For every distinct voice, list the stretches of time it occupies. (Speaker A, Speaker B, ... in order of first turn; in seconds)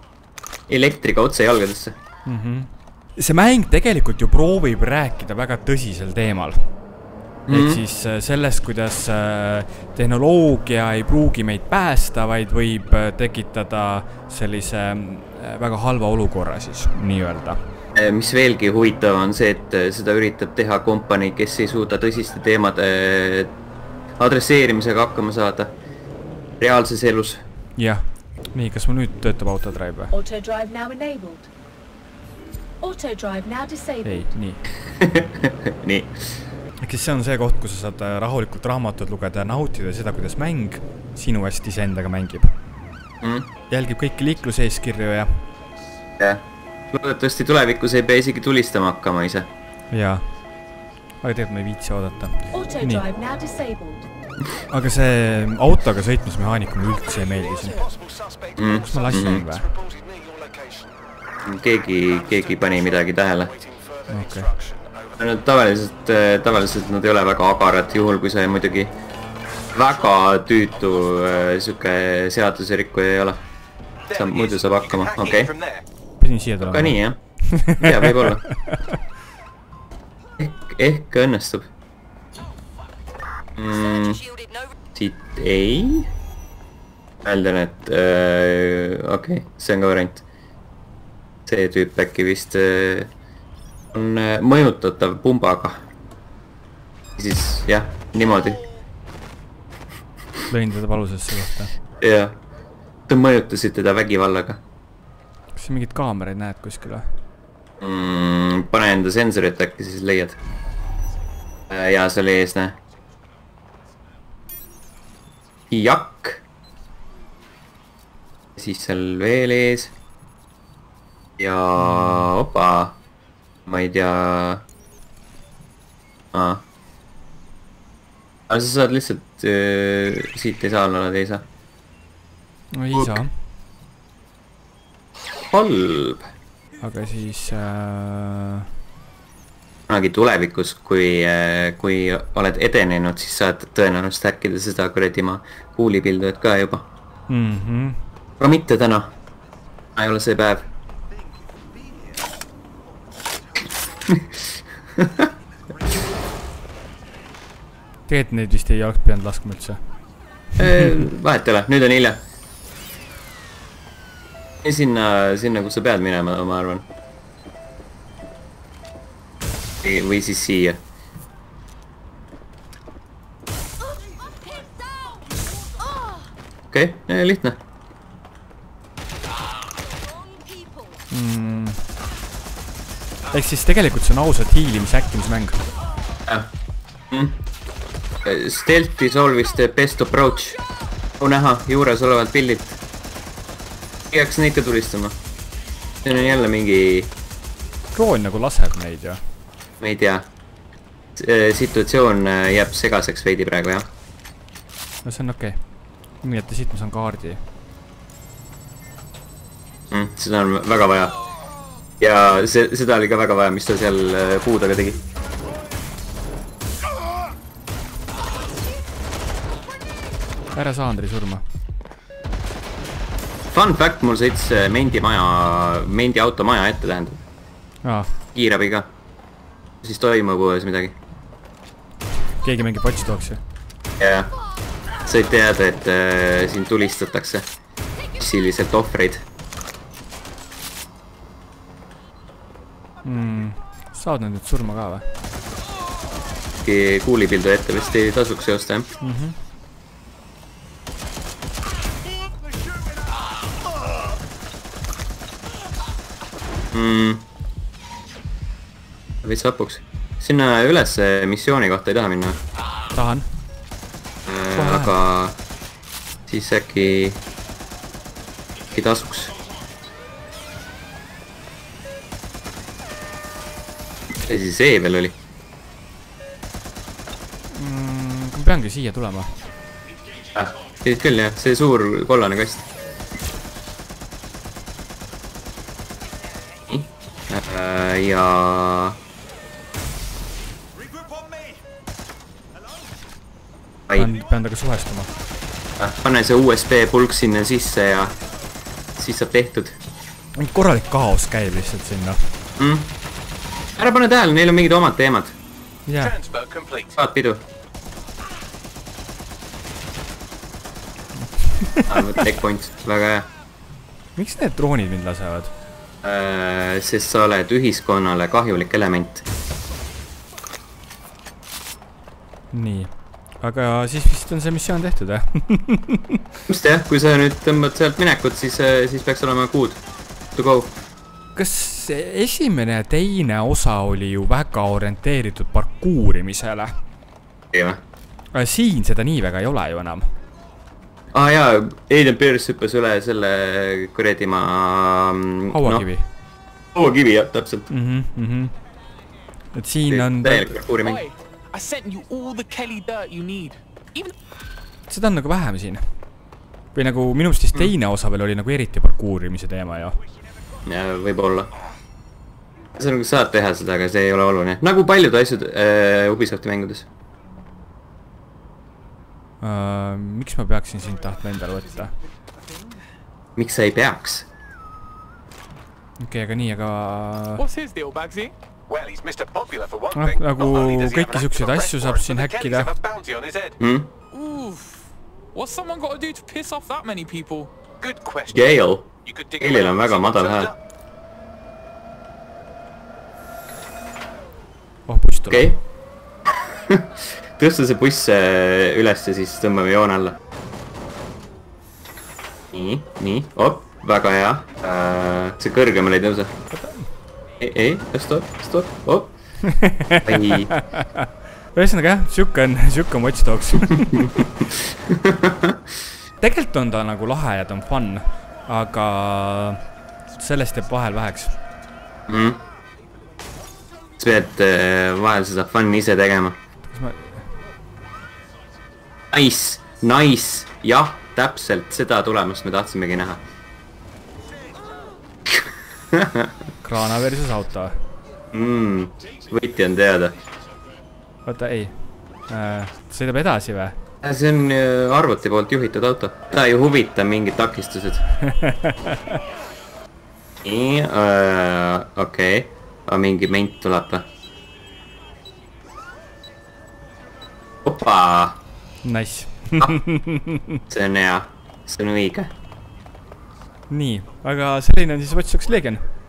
Speaker A: 0.7-2.0, 7.5-7.8, 17.9-23.6, 24.2-25.7, 26.6-27.4, 35.0-36.4, 43.2-43.5, 46.2-49.5, 58.5-59.4, 61.4-63.5, 65.2-68.9, 69.7-73.4, 74.1-75.5, 76.6-78.5, 80.4-81.7, 83.6-84.3, 84.9-86.1, 87.2-90.2, 91.5-93.1, 93.9-95.8, 97.2-98.6, 102.0-102.3, 103.1-104.6, 107.8-110.4, 111.7-112.8, 115.7-116.4, 118.5-119.9, 121.4-123.0, 123.7-124.6, 126.3-126.6, 128.5-131.4, 132.9-133.2, 135.4-136.3, 139.9-146.9, 148.4-149.1, 149.9-150.7, 154.1-154.4, 154.9-155.3, 160.6-162.2, 164.6-166.8, 169.8-170.8, 176.7-177.6, 187.1-187.4, 188.2-190.6, 191.2-192.8, 194.1-195.2, 196.0-197.1, 199.8-200.3, 201.2-203.9, 209.9-211.1, 212.0-215.0, 223.5-227.2, 228.3-228.9, 229.8-230.9, 234.0-234.3, 235.0-237.5, 238.2-239.2, 246.6-248.9, 256.7-257.2, 259.2-262.4, 264.2-265.4, 266.3-267.2, 268.7-269.3, 274.2-275.1, 280.3-282.6, 286.7-289.0, 295.8-298.1, 298.9-299.8, 302.6-302.9, 303.8-305.4, 306.9-307.4, 311.9-313.3, 316.0-319.2, 326.5-329.8, 330.3-330.7, 337.5-337.8, 341.1-345.9, 346.7-347.7, 349.9-351.0, 360.6-361.5, 362.8-366.9, 373.4-374.3, 383.6-383.9, 388.3-390.5, 395.3-395.6, 396.4-400.2, 402.5-406.4, 407.4-409.1, 410.0-410.5, 414.4-415.6, 422.1-422.4, 424.0-426.4, 429.1-433.2, 435.3-436.3, 438.3-440.2, 444.0-448.1, 450.4-454.1, 457.6-458.4, 460.7-462.3
Speaker B: 2.2-6.7, 7.5-17.6, 27.8-30.1, 34.0-34.6, 36.8-42.5, 43.7-45.5, 49.9-50.3, 51.2-53.0, 54.7-57.9, 58.9-59.7, 64.1-64.5, 76.2-79.0, 100.5-101.7, 105.5-107.1, 121.8-122.3, 132.7-133.3, 136.8-138.7, 147.3-148.0, 158.1-159.8, 181.1-181.8, 183.3-185.7, 197.9-199.2, 205.0-207.4, 220.5-221.4, 227.8-228.1, 232.4-233.4, 243.0-245.1, 249.0-249.4, 262.9-263.3, 264.5-265.0, 277.5-279.3, 293.9-295.1, 300.4-302.2, 305.9-306.1, 311.4-312.0, 314.1-315.5, 322.5-326.2, 331.3-336.7, 338.3-340.1, 345.5-346.1, 347.7-348.5, 349.5-350.5, 354.9-355.8, 356.7-360.0, 369.4-371.9, 376.0-377.4, 379.9-382.7, 394.9-395.5, 406.5-406.9, 409.5-414.4, 416.2-419.6, 420.1-421.4, 426.7-427.3, 436.6-437.8, 441.2-441.7, 442.3-443.8, 448.2-449.1, 458.8-460.6, 463.7-465.8
Speaker C: 30.1-31.5, 32.8-34.3, 52.5-54.1
Speaker D: 57.2-61.0, 62.0-65.2, 74.1-75.8, 306.0-307.0, 378.7-383.6, 387.8-390.5
Speaker E: 350.8-354.1, 377.4-378.3, 384.1-387.5